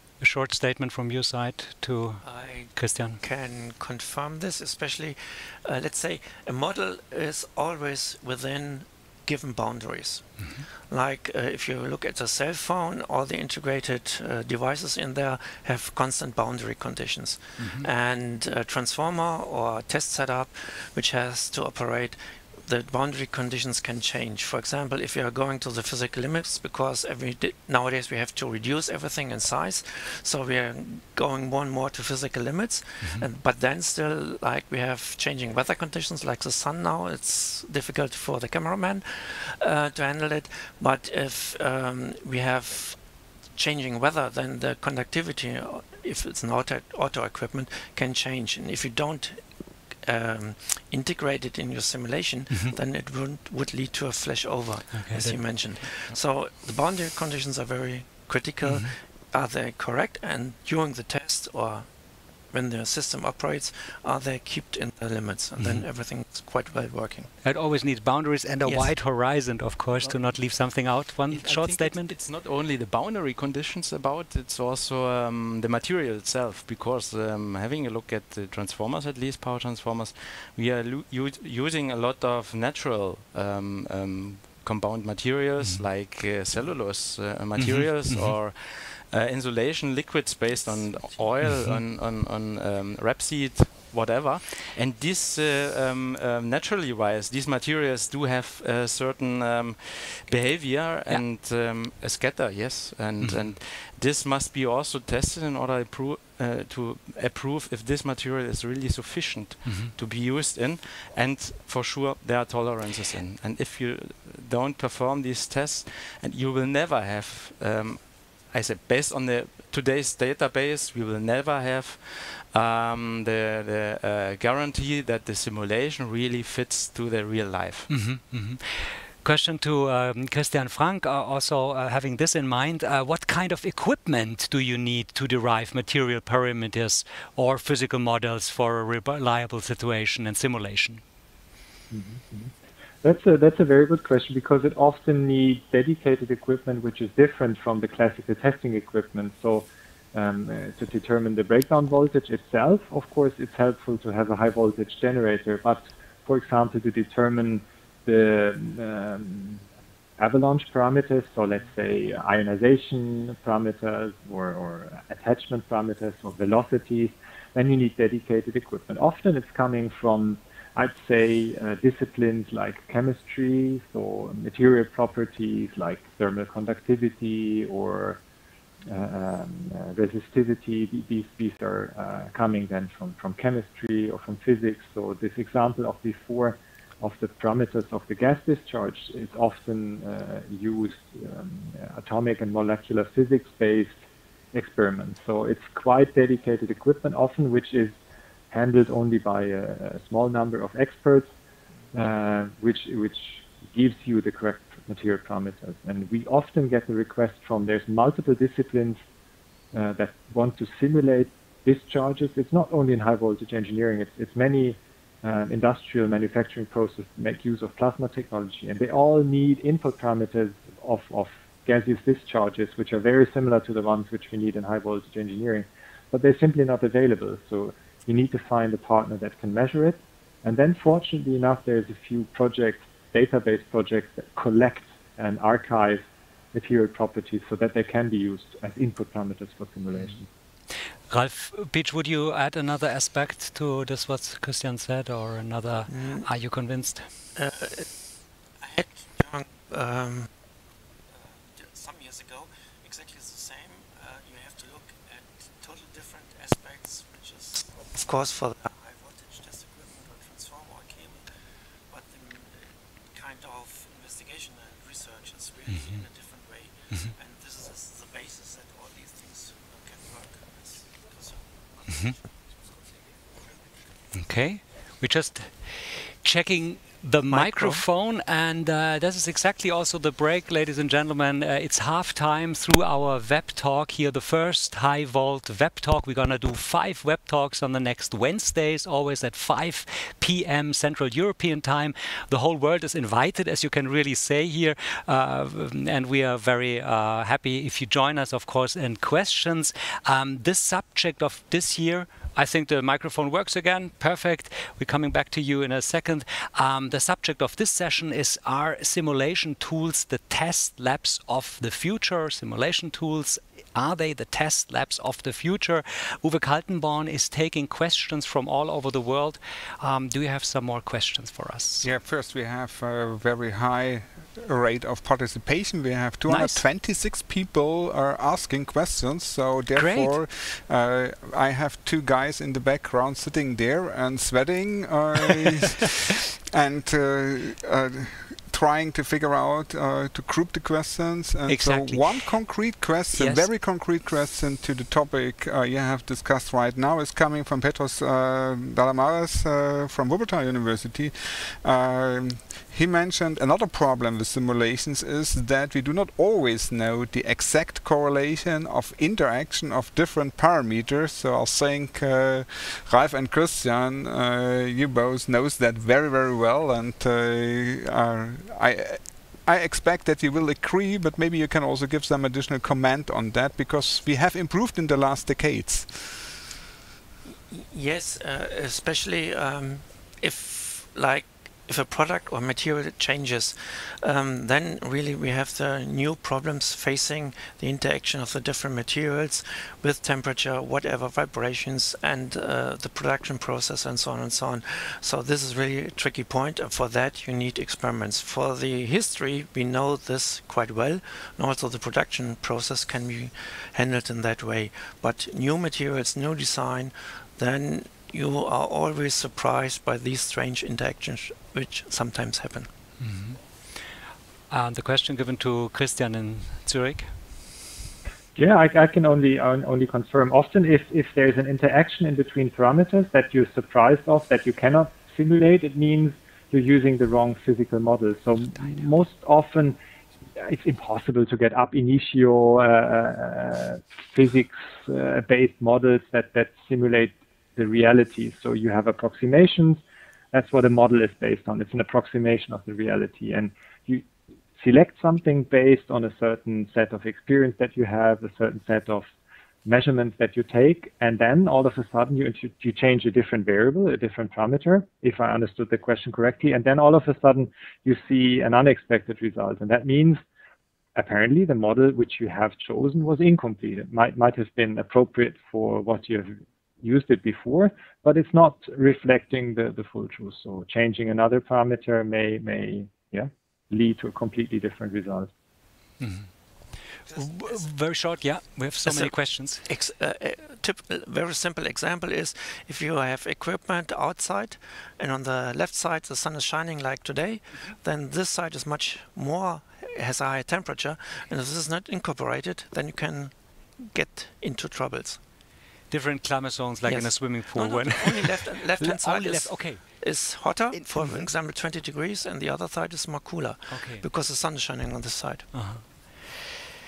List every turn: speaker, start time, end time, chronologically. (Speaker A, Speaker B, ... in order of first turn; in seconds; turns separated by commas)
Speaker A: 0.2-3.2, Speaker B: 2.2-67.3, Speaker A: 10.4-10.7, Speaker A: 17.6-17.9, Speaker A: 52.5-52.7, Speaker A: 54.9-55.6, Speaker A: 58.6-59.0, Speaker A: 65.6-65.8, Speaker A: 67.4-72.1, Speaker C: 68.6-69.0, Speaker C: 70.0-127.9, Speaker A: 85.6-85.8, Speaker A: 87.5-88.3, Speaker A: 103.2-103.5, Speaker A: 109.6-109.9, Speaker A: 127.9-141.0, Speaker D: 141.9-142.5, Speaker D: 143.0-159.6, Speaker D: 160.2-178.2, Speaker D: 178.9-193.9, Speaker D: 194.5-197.9, Speaker D: 198.5-201.3, Speaker D: 201.9-209.0, Speaker D: 209.7-240.3, Speaker A: 241.1-247.1, Speaker B: 245.9-246.3, Speaker B: 247.3-247.9, Speaker B: 248.6-250.3, Speaker B: 251.2-261.3, Speaker B: 261.9-271.4, Speaker A: 271.9-272.1, Speaker A: 274.1-321.9, Speaker E: 321.8-376.3, Speaker A: 326.3-326.6, Speaker A: 329.7-330.2, Speaker A: 341.5-342.6, Speaker A: 343.1-343.5, Speaker B: 377.5-412.7, Speaker A: 413.0-413.4, Speaker A: 414.5-417.1, Speaker D: 418.4-429.8, Speaker D: 430.4-439.8, Speaker D: 440.3-449.0, Speaker D: 449.6-460.2, Speaker D: 460.9-475.3, Speaker A: 476.0-476.3, Speaker B: 477.1-477.6, Speaker A: 477.1-479.6, Speaker B: 478.8-495.2, Speaker A: 495.9-500.2, Speaker B: 496.8-505.7, Speaker A: 500.7-501.3, Speaker A: 503.7-504.1, Speaker A: 505.5-506.3